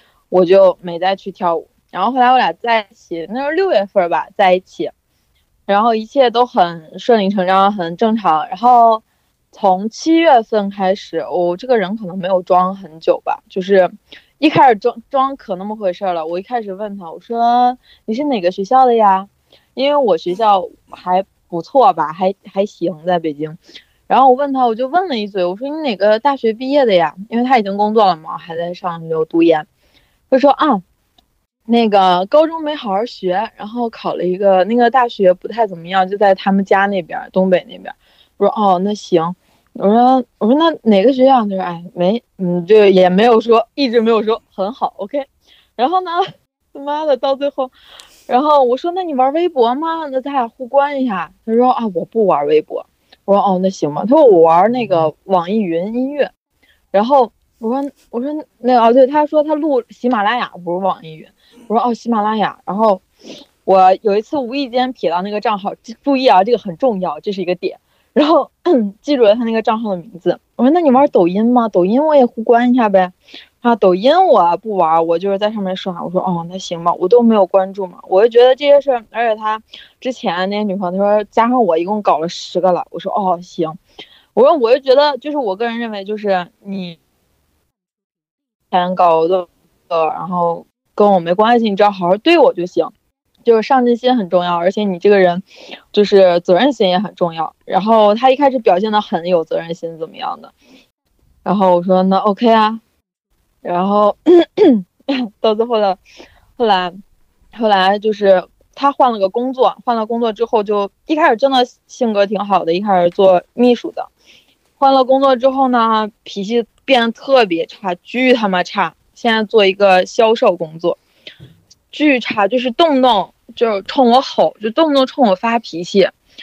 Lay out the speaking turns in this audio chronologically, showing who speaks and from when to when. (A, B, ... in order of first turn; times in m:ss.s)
0:00.3-0:04.9 A
0:05.7-0:29.7 A
0:30.3-0:30.8 A
0:31.7-0:45.2 A
0:45.8-0:47.7 A
0:48.3-0:56.3 A
0:56.9-1:03.0 A
1:03.6-1:23.8 A
1:24.3-1:27.0 A
1:28.7-1:32.9 A
1:33.4-1:40.5 A
1:41.4-1:42.8 A
1:43.6-1:46.0 A
1:46.6-1:47.0 A
1:47.5-1:54.1 A
1:54.8-2:01.0 A
2:01.9-2:06.1 A